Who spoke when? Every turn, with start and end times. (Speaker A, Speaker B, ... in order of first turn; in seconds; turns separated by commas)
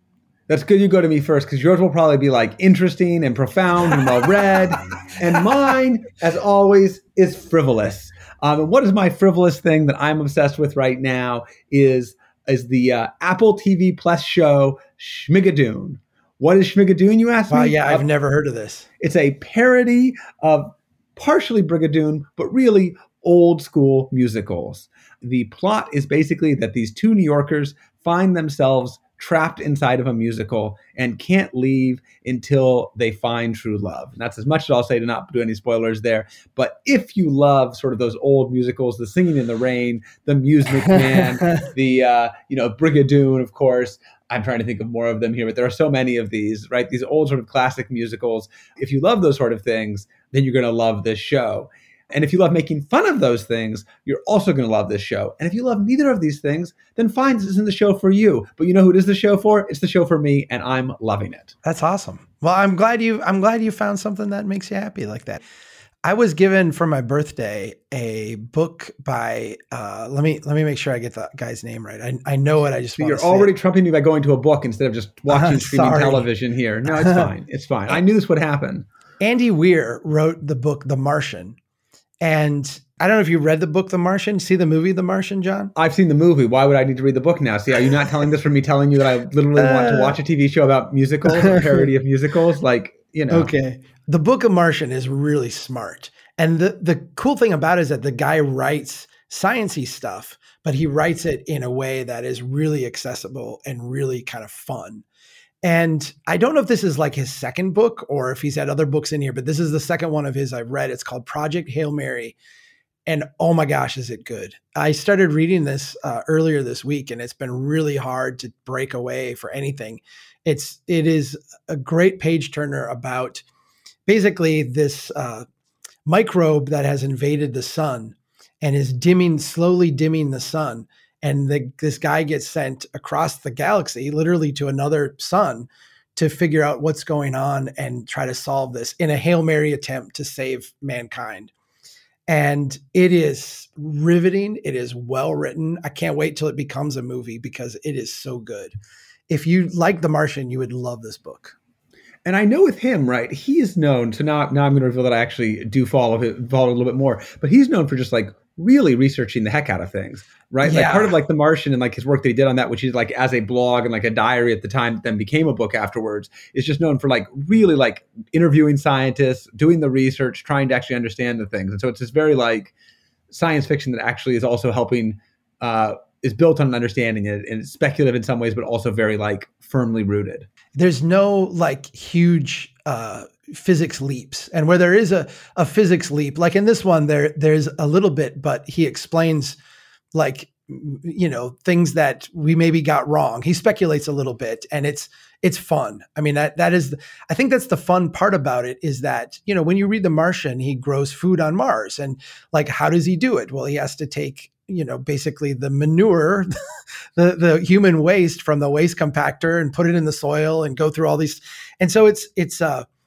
Speaker A: 0.5-18.1, Speaker B: 17.5-18.9, Speaker A: 19.0-61.5, Speaker B: 61.6-65.4, Speaker B: 66.0-73.5, Speaker A: 73.0-78.9, Speaker B: 75.3-76.3, Speaker B: 76.9-77.3, Speaker B: 79.2-81.6, Speaker B: 82.2-85.7, Speaker A: 85.8-93.5, Speaker B: 89.6-90.2, Speaker B: 91.3-91.8, Speaker B: 93.3-105.0, Speaker B: 105.6-112.4, Speaker B: 113.1-123.4, Speaker B: 124.1-125.5, Speaker B: 126.1-141.5, Speaker B: 142.3-148.7, Speaker B: 149.3-151.6, Speaker A: 152.2-172.7, Speaker B: 160.6-161.2, Speaker A: 173.3-180.5, Speaker B: 180.8-189.6, Speaker B: 190.1-206.5, Speaker B: 207.2-212.9